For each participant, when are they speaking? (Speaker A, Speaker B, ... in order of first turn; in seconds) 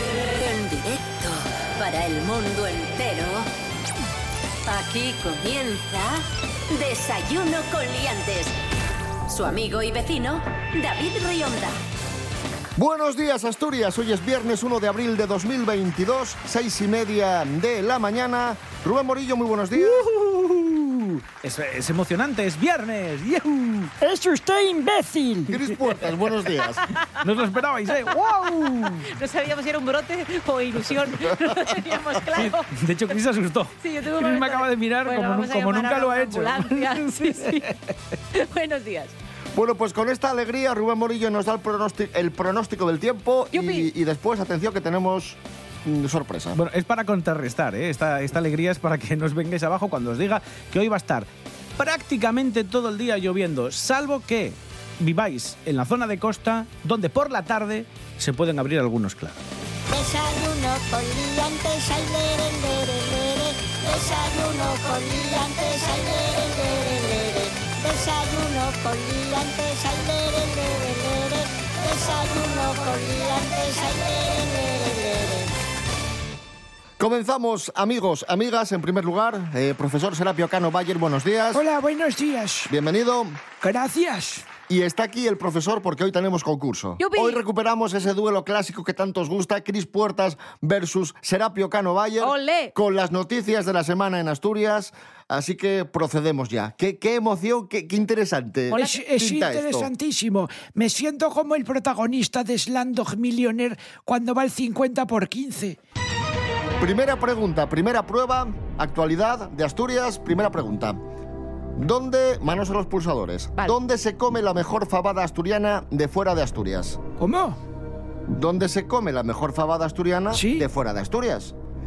Speaker A: 0.3-3.5, 4.7-8.5, 9.3-11.8
Speaker B: 12.8-20.0, 25.5-26.8, 39.5-46.6, 77.0-81.6, 82.7-83.4, 84.7-99.9, 106.8-111.0, 111.8-117.0, 118.3-121.5
Speaker C: 19.9-23.9, 27.2-29.1, 32.4-37.7, 46.5-59.4
Speaker D: 24.0-25.5, 81.5-82.7, 83.6-84.5, 98.7-105.8, 117.2-117.6, 120.3-120.6
Speaker E: 29.1-32.7, 33.8-37.7, 38.3-39.1, 43.5-43.9, 87.0-87.4, 92.2-92.7, 98.7-99.0
Speaker F: 59.9-75.5